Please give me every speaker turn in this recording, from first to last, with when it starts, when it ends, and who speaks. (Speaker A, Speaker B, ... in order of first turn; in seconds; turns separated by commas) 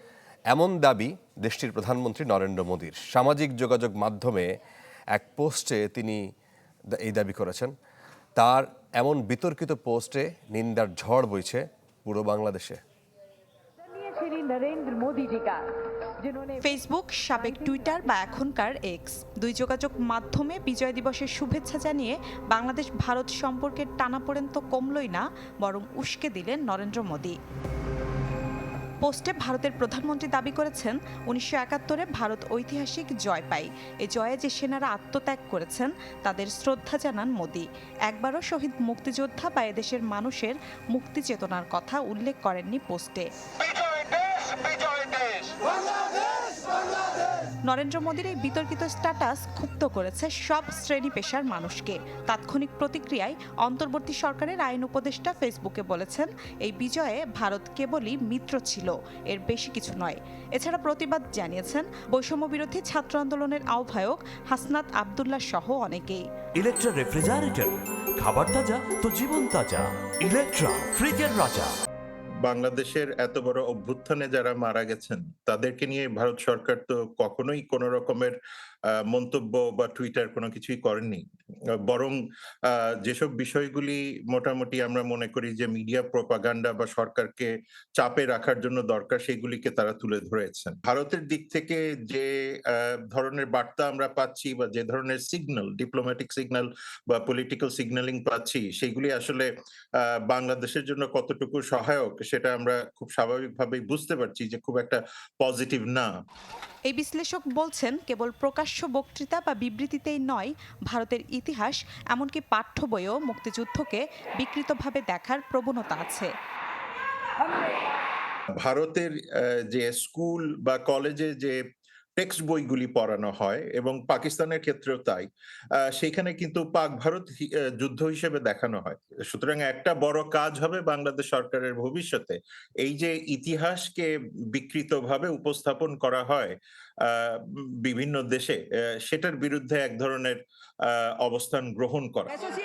Speaker A: 0.5-4.5, Speaker A: 5.1-6.2, Speaker A: 6.9-7.7, Speaker A: 8.4-12.8, Speaker B: 13.9-15.7, Speaker B: 16.3-16.6, Speaker C: 16.6-27.4, Speaker C: 29.0-43.3, Speaker C: 47.6-66.2, Speaker D: 66.5-71.7, Speaker E: 72.4-78.4, Speaker E: 78.9-81.2, Speaker E: 81.7-106.1, Speaker C: 106.9-116.3, Speaker E: 118.6-119.2, Speaker E: 119.7-121.6, Speaker E: 122.2-125.2, Speaker E: 125.8-142.4